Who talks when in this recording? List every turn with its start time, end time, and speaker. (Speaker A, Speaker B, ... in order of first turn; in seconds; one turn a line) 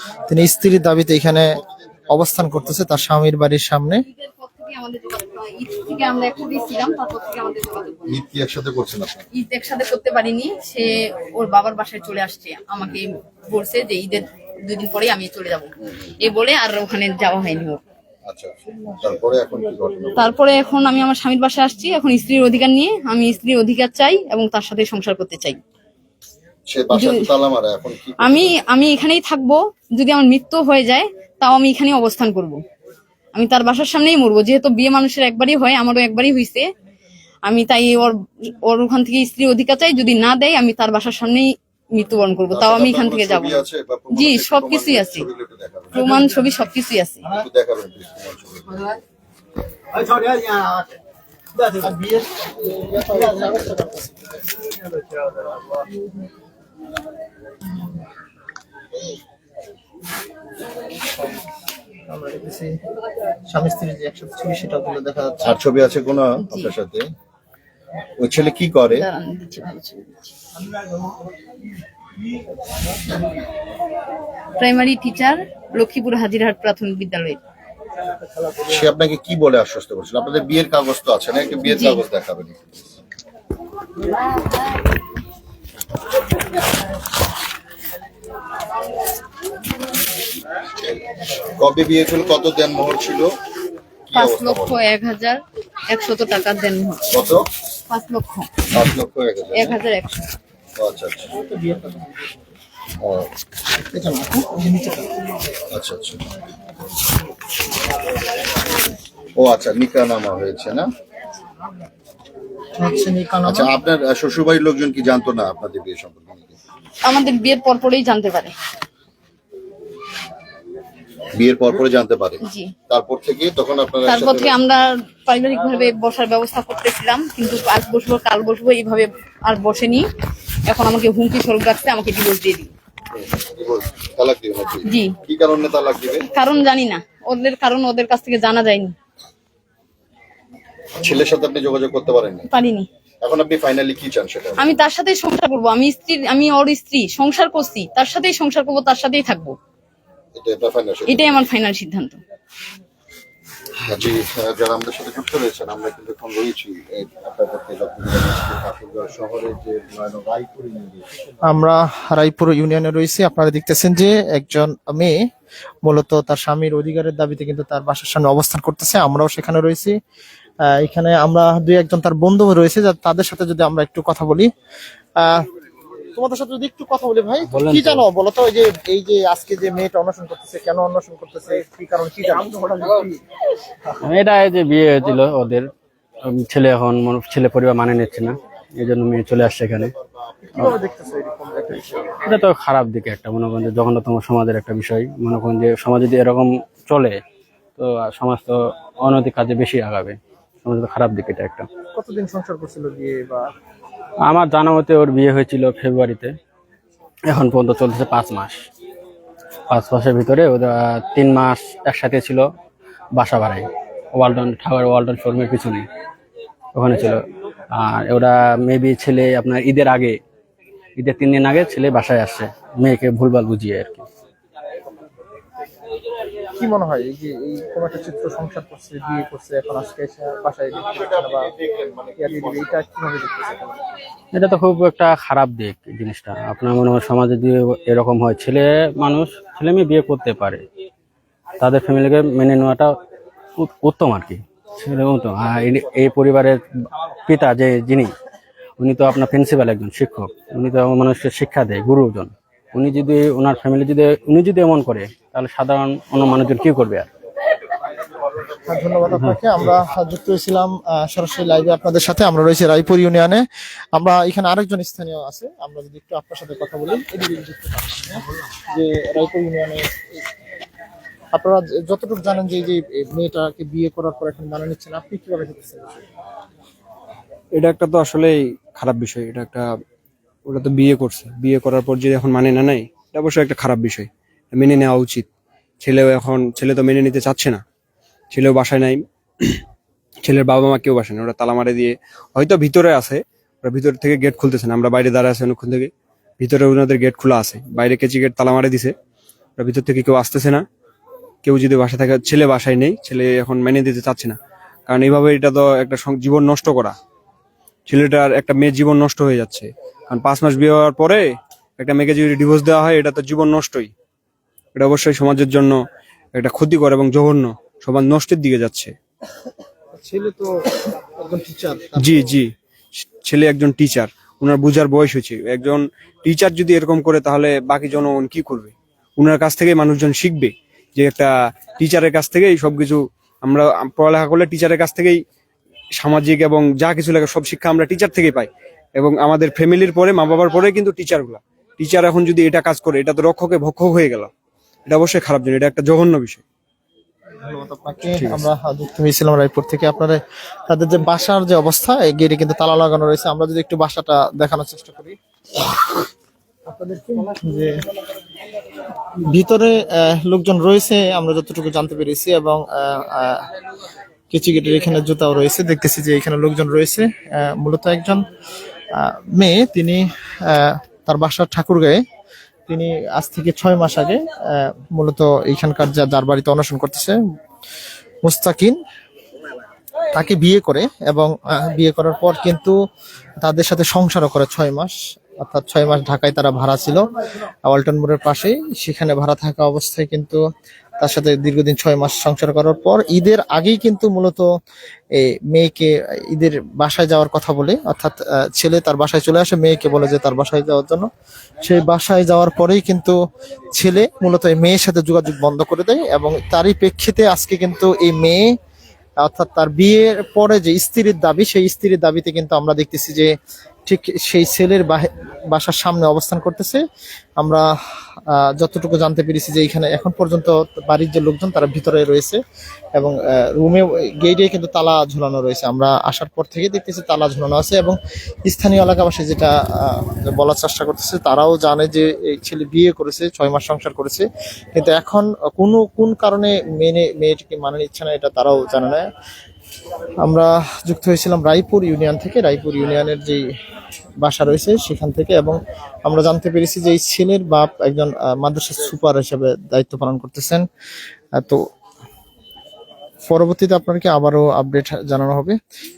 Speaker A: 0.3-1.5
Speaker A: 2.1-4.0
Speaker B: 4.1-8.2
Speaker C: 8.1-9.2
Speaker B: 9.3-15.7
Speaker B: 16.2-17.8
Speaker C: 18.3-20.2
Speaker B: 20.2-25.6
Speaker C: 26.7-28.6
Speaker B: 26.9-27.3
Speaker B: 28.2-32.6
Speaker B: 33.3-36.7
Speaker B: 37.5-45.3
Speaker C: 42.5-46.1
Speaker B: 45.9-47.2
Speaker C: 47.3-49.0
Speaker A: 50.0-50.7
Speaker A: 51.6-54.1
Speaker A: 62.1-62.7
Speaker A: 63.5-65.6
Speaker C: 65.4-67.0
Speaker B: 66.4-66.7
Speaker C: 68.2-69.0
Speaker B: 68.9-70.3
Speaker B: 74.6-77.4
Speaker C: 78.7-82.6
Speaker B: 81.7-82.0
Speaker C: 91.6-93.3
Speaker C: 94.1-94.8
Speaker B: 94.1-97.2
Speaker C: 97.1-97.4
Speaker B: 97.9-98.5
Speaker C: 98.7-99.8
Speaker B: 99.6-100.2
Speaker C: 100.8-101.3
Speaker A: 101.4-102.1
Speaker C: 103.0-103.3
Speaker A: 103.8-105.2
Speaker C: 105.7-106.2
Speaker C: 109.4-110.9
Speaker A: 112.8-113.7
Speaker C: 113.5-116.5
Speaker B: 117.0-118.5
Speaker C: 121.4-124.6
Speaker B: 122.4-122.7
Speaker B: 124.1-130.1
Speaker B: 130.7-132.7
Speaker C: 133.2-136.2
Speaker B: 134.9-135.1
Speaker B: 136.3-138.9
Speaker C: 141.0-142.5
Speaker B: 142.5-142.9
Speaker C: 143.2-144.8
Speaker B: 144.6-149.6
Speaker C: 150.4-151.4
Speaker B: 151.1-152.2
Speaker C: 153.8-161.1
Speaker A: 161.5-165.2
Speaker A: 165.8-169.9
Speaker A: 170.7-174.5
Speaker A: 175.2-175.4
Speaker A: 176.1-183.2
Speaker D: 177.5-178.1
Speaker D: 184.0-185.7
Speaker D: 186.3-189.9
Speaker A: 190.5-192.2
Speaker D: 191.8-197.2
Speaker D: 197.8-201.7
Speaker A: 201.9-203.5
Speaker D: 204.3-206.3
Speaker D: 207.3-208.7
Speaker D: 209.7-212.4
Speaker D: 213.2-215.9
Speaker D: 216.8-217.2
Speaker D: 217.7-220.2
Speaker D: 221.0-224.1
Speaker A: 226.6-231.5
Speaker C: 231.7-232.2
Speaker A: 232.2-233.7
Speaker D: 234.3-240.6
Speaker D: 241.6-242.9
Speaker D: 243.6-246.6
Speaker D: 247.3-248.1
Speaker D: 248.8-257.1
Speaker A: 258.5-263.4
Speaker A: 263.9-270.2
Speaker A: 271.3-276.1
Speaker E: 277.5-279.6
Speaker E: 280.5-285.3
Speaker E: 285.8-287.6
Speaker E: 288.3-289.6
Speaker E: 290.2-298.9
Speaker E: 299.6-300.6
Speaker E: 301.4-304.4
Speaker E: 304.9-306.9
Speaker E: 307.9-311.2
Speaker E: 311.8-313.9
Speaker E: 314.8-315.8
Speaker E: 316.4-318.9
Speaker A: 319.9-322.2
Speaker E: 322.0-322.5
Speaker E: 323.3-335.2
Speaker E: 336.0-344.3
Speaker E: 344.9-346.4
Speaker A: 347.4-355.2
Speaker E: 348.2-348.4
Speaker A: 356.7-357.8
Speaker A: 359.2-363.5
Speaker A: 364.3-368.2
Speaker A: 369.0-372.0
Speaker A: 372.7-377.2
Speaker A: 378.2-378.8
Speaker A: 380.1-382.8
Speaker A: 383.4-387.0
Speaker A: 387.7-390.4
Speaker A: 391.0-394.5
Speaker A: 395.1-401.1
Speaker A: 401.6-403.2
Speaker A: 403.8-408.5
Speaker A: 409.2-413.3
Speaker A: 413.9-416.8
Speaker A: 417.4-417.7
Speaker A: 418.3-422.4
Speaker A: 422.9-439.1
Speaker A: 440.2-443.4
Speaker A: 444.2-450.6
Speaker A: 453.3-455.6